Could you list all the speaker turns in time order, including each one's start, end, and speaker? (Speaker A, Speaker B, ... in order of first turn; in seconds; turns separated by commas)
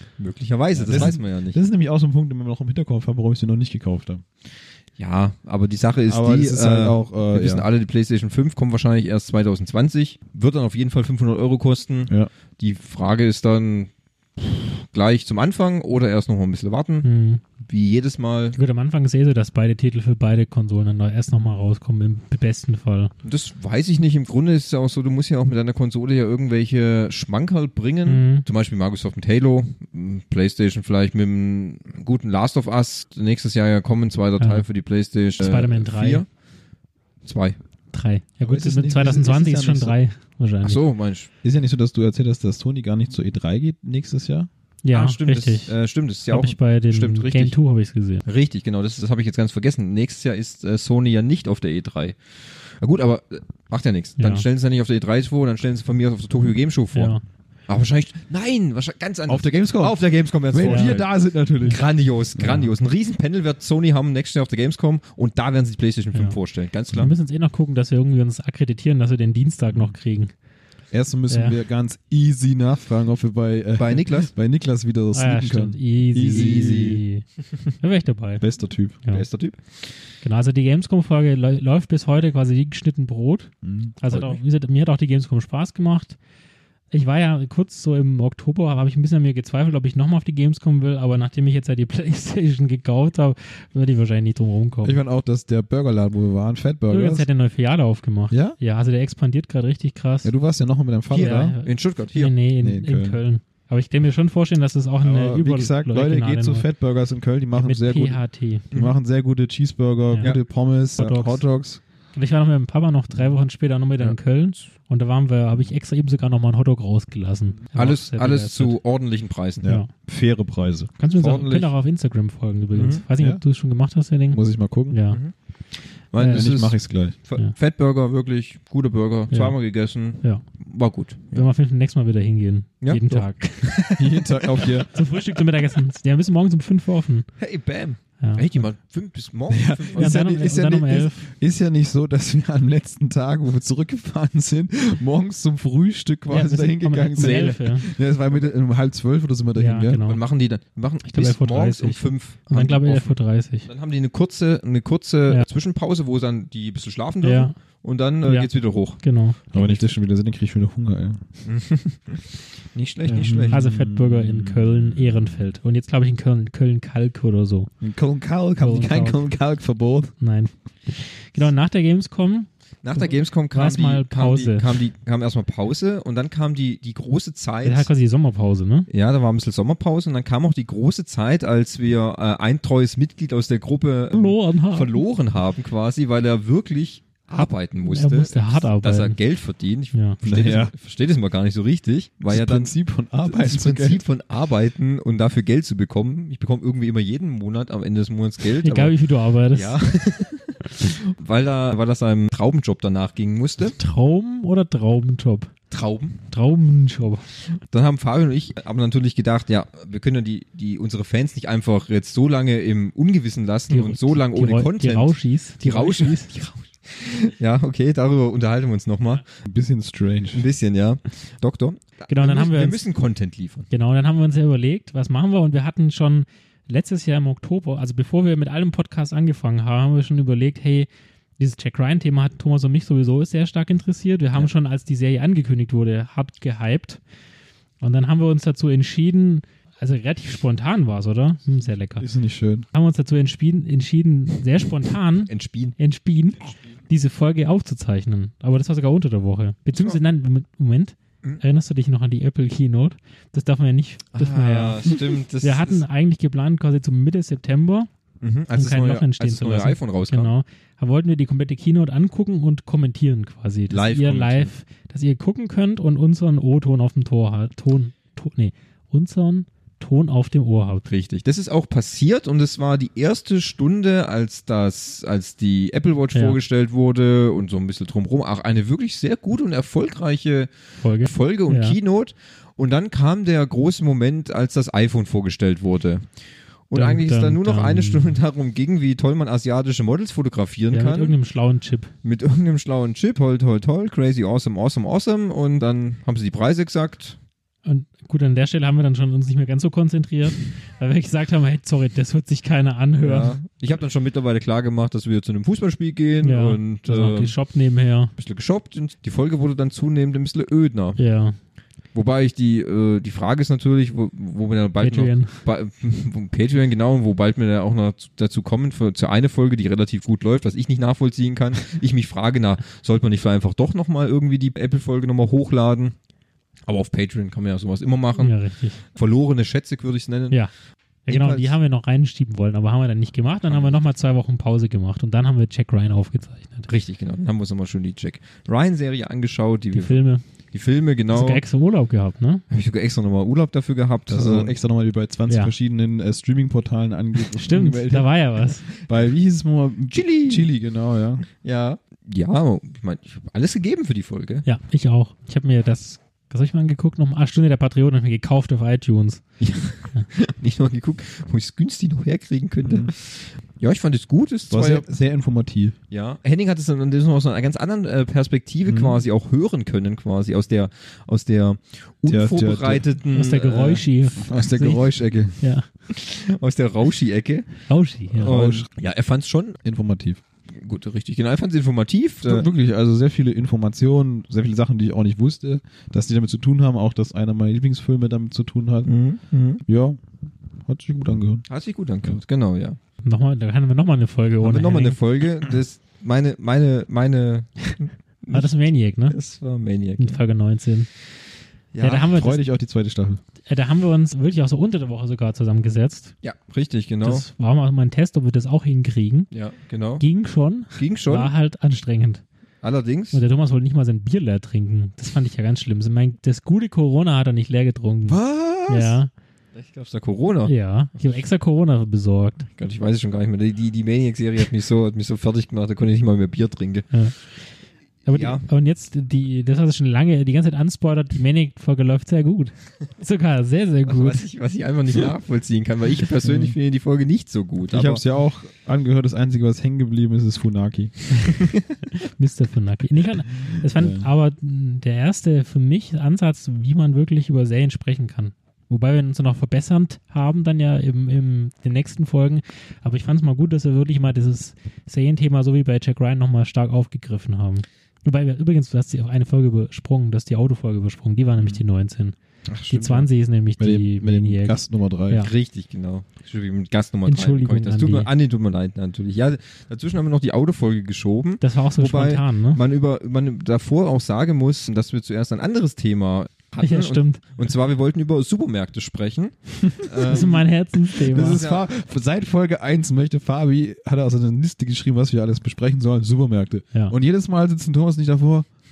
Speaker A: 0.2-1.6, Speaker B: 0.7-4.2, Speaker A: 5.0-17.1, Speaker B: 6.1-7.7, Speaker C: 17.0-17.4, Speaker A: 17.6-18.6, Speaker C: 18.6-23.1, Speaker A: 23.2-36.2, Speaker C: 28.1-28.4, Speaker C: 34.4-34.6, Speaker C: 35.4-36.2, Speaker A: 37.2-37.6, Speaker C: 37.9-40.8, Speaker B: 38.4-40.0, Speaker A: 40.6-41.3, Speaker B: 41.4-44.5, Speaker C: 44.8-48.2, Speaker A: 44.9-47.5, Speaker A: 48.2-61.1, Speaker C: 54.2-54.4, Speaker C: 56.9-57.2, Speaker B: 59.3-61.8, Speaker C: 60.6-61.0, Speaker A: 61.6-67.1, Speaker B: 62.4-62.6, Speaker C: 66.9-70.3, Speaker B: 70.9-77.0, Speaker C: 71.3-71.6, Speaker A: 73.8-74.3, Speaker C: 75.1-77.2, Speaker A: 76.1-77.0, Speaker C: 77.8-78.4, Speaker B: 78.4-79.0, Speaker A: 79.1-79.6, Speaker C: 80.2-86.2, Speaker B: 83.6-83.9, Speaker A: 84.1-84.4, Speaker C: 86.9-95.0, Speaker B: 94.8-97.3, Speaker C: 96.9-100.3, Speaker B: 98.3-98.6, Speaker B: 100.2-101.5, Speaker A: 101.1-102.3, Speaker C: 101.1-106.7, Speaker B: 102.6-103.2, Speaker B: 105.0-108.2, Speaker C: 107.5-108.6, Speaker B: 108.7-111.8, Speaker C: 111.0-111.4, Speaker C: 112.1-118.8, Speaker A: 117.7-119.7, Speaker B: 119.6-120.9, Speaker C: 119.6-119.9, Speaker C: 121.0-125.2, Speaker A: 121.1-121.7, Speaker A: 122.7-123.0, Speaker B: 123.2-123.4, Speaker B: 124.3-125.0, Speaker A: 126.1-131.5, Speaker C: 126.2-126.6, Speaker B: 126.3-127.2, Speaker C: 129.3-130.4, Speaker C: 131.3-134.0, Speaker A: 132.8-135.1, Speaker B: 133.9-134.9, Speaker C: 134.9-137.3, Speaker A: 137.4-140.2, Speaker C: 138.2-138.4, Speaker B: 139.5-150.0, Speaker C: 140.0-141.2, Speaker C: 146.3-147.8, Speaker A: 147.2-147.6, Speaker C: 149.6-150.2, Speaker A: 150.0-159.0, Speaker C: 151.0-153.7, Speaker C: 157.2-157.5, Speaker C: 158.2-159.4, Speaker A: 159.5-159.8, Speaker B: 159.5-161.2, Speaker A: 161.4-163.6, Speaker C: 163.1-167.7, Speaker B: 163.2-165.0, Speaker B: 167.8-170.1, Speaker C: 168.6-169.2, Speaker C: 170.2-174.8, Speaker A: 172.8-177.9, Speaker C: 177.6-178.9, Speaker A: 178.9-192.7, Speaker C: 184.1-185.0, Speaker C: 187.4-189.2, Speaker C: 189.9-190.2, Speaker B: 190.2-190.7, Speaker B: 192.3-194.0, Speaker A: 193.2-199.0, Speaker C: 198.6-199.8, Speaker A: 199.5-203.8, Speaker C: 203.8-205.5, Speaker A: 205.7-206.2, Speaker C: 206.3-207.2, Speaker A: 207.6-219.2, Speaker C: 213.7-216.3, Speaker B: 219.4-220.4, Speaker A: 220.3-223.7, Speaker C: 222.1-222.8, Speaker C: 223.7-230.9, Speaker C: 231.4-237.0, Speaker C: 237.8-242.1, Speaker B: 242.0-242.7, Speaker C: 242.7-257.9, Speaker A: 245.3-245.8, Speaker A: 254.1-255.8, Speaker A: 258.2-260.3, Speaker C: 258.5-270.9, Speaker A: 263.7-264.5, Speaker A: 270.9-286.1, Speaker C: 276.1-276.4, Speaker C: 280.8-281.8, Speaker A: 286.7-291.1, Speaker C: 286.7-288.2, Speaker C: 290.7-291.9, Speaker A: 292.0-297.2, Speaker C: 297.6-303.3, Speaker A: 303.0-307.3, Speaker C: 306.2-308.1, Speaker A: 308.1-311.0, Speaker C: 311.0-311.4, Speaker A: 311.9-325.9, Speaker C: 314.8-315.4, Speaker A: 326.7-330.4, Speaker C: 328.2-328.8, Speaker C: 331.1-336.7, Speaker A: 331.1-331.6, Speaker A: 333.5-333.7, Speaker A: 336.7-341.4, Speaker C: 339.7-340.2, Speaker C: 341.1-342.4, Speaker A: 342.5-344.5, Speaker B: 344.1-348.1, Speaker C: 345.3-345.5, Speaker C: 347.3-348.6, Speaker B: 348.8-351.2, Speaker A: 349.9-350.5, Speaker A: 351.4-354.4, Speaker C: 354.4-359.2, Speaker A: 359.4-364.9, Speaker B: 362.6-362.9, Speaker B: 364.5-365.7, Speaker A: 365.9-373.8, Speaker B: 368.7-369.0, Speaker B: 372.1-372.8, Speaker C: 373.1-374.8, Speaker B: 374.2-375.4, Speaker C: 375.4-375.7, Speaker A: 375.9-377.5, Speaker C: 377.7-378.3, Speaker B: 378.1-378.7, Speaker A: 378.2-379.6, Speaker B: 379.6-380.2, Speaker A: 380.5-382.5, Speaker B: 382.2-388.9, Speaker A: 388.8-389.6, Speaker B: 389.6-390.0, Speaker B: 390.6-391.4, Speaker A: 391.5-392.8, Speaker C: 393.0-395.0, Speaker A: 394.4-398.5, Speaker C: 398.3-399.2, Speaker A: 399.1-400.2, Speaker C: 400.0-400.9, Speaker A: 401.7-402.1, Speaker C: 401.8-402.4, Speaker B: 402.1-403.2, Speaker C: 403.5-406.1, Speaker A: 406.2-407.2, Speaker C: 407.0-409.3, Speaker A: 409.3-410.0, Speaker C: 410.0-412.2, Speaker A: 410.7-411.3, Speaker A: 412.6-413.2, Speaker C: 413.1-419.1, Speaker A: 418.1-418.9, Speaker A: 419.5-420.5, Speaker C: 420.4-422.4, Speaker A: 422.5-426.9, Speaker C: 426.9-427.1, Speaker C: 428.0-434.2, Speaker A: 428.1-428.4, Speaker A: 433.9-438.0, Speaker B: 436.2-436.6, Speaker B: 437.7-441.3, Speaker C: 442.0-462.1, Speaker B: 443.6-444.1, Speaker A: 462.5-463.1, Speaker C: 462.7-465.3, Speaker B: 463.6-465.3, Speaker A: 465.1-480.4, Speaker C: 467.1-468.1, Speaker C: 471.4-472.6, Speaker C: 476.6-477.2, Speaker C: 480.1-481.4, Speaker B: 481.0-488.5, Speaker A: 481.1-481.7